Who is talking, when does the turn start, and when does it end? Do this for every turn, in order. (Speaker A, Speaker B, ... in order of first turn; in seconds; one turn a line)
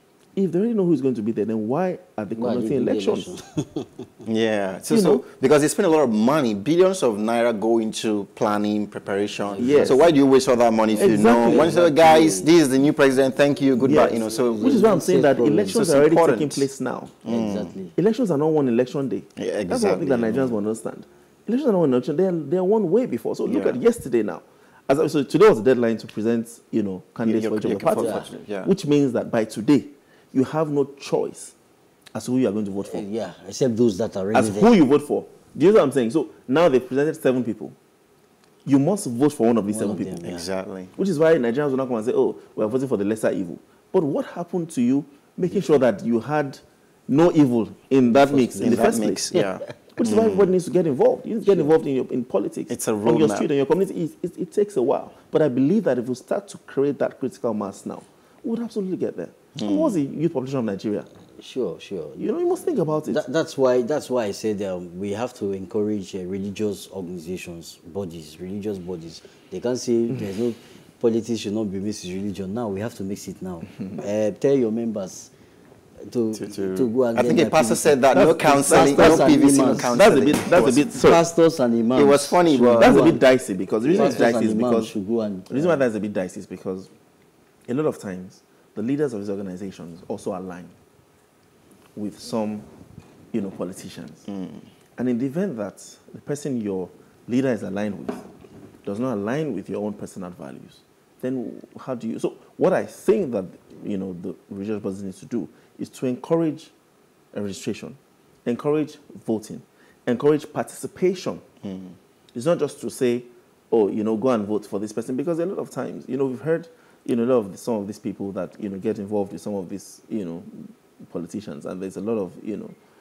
Speaker A: 0.4-3.3
Speaker B: 2.4-4.0
Speaker C: 4.3-15.0
Speaker A: 4.9-5.2
Speaker B: 9.4-10.2
Speaker A: 9.6-10.1
Speaker B: 10.9-12.5
Speaker A: 11.0-11.9
Speaker B: 13.8-15.9
Speaker A: 13.8-17.2
Speaker C: 15.7-16.7
Speaker C: 17.2-17.8
Speaker B: 17.2-17.9
Speaker A: 17.9-31.5
Speaker C: 19.4-20.6
Speaker C: 23.5-23.8
Speaker C: 27.2-28.7
Speaker B: 27.9-28.3
Speaker A: 32.1-33.1
Speaker B: 32.9-34.7
Speaker A: 34.3-37.8
Speaker A: 38.6-40.3
Speaker B: 39.7-40.5
Speaker C: 40.2-40.9
Speaker A: 41.0-49.3
Speaker B: 48.1-49.6
Speaker C: 48.6-50.5
Speaker A: 49.9-61.1
Speaker B: 51.5-51.7
Speaker C: 52.7-53.5
Speaker C: 59.6-60.0
Speaker B: 61.4-62.3
Speaker A: 62.2-63.2
Speaker B: 63.0-75.3
Speaker B: 76.1-78.0
Speaker C: 76.3-81.0
Speaker A: 78.1-81.2
Speaker B: 78.6-83.2
Speaker C: 81.9-83.1
Speaker A: 82.8-84.9
Speaker C: 83.8-84.3
Speaker B: 83.9-85.8
Speaker A: 85.5-86.9
Speaker A: 87.7-90.7
Speaker A: 92.0-92.7
Speaker A: 93.3-94.2
Speaker C: 94.3-94.6
Speaker A: 95.0-98.3
Speaker A: 98.8-106.7
Speaker A: 107.3-111.4
Speaker C: 111.6-112.0
Speaker A: 112.3-122.8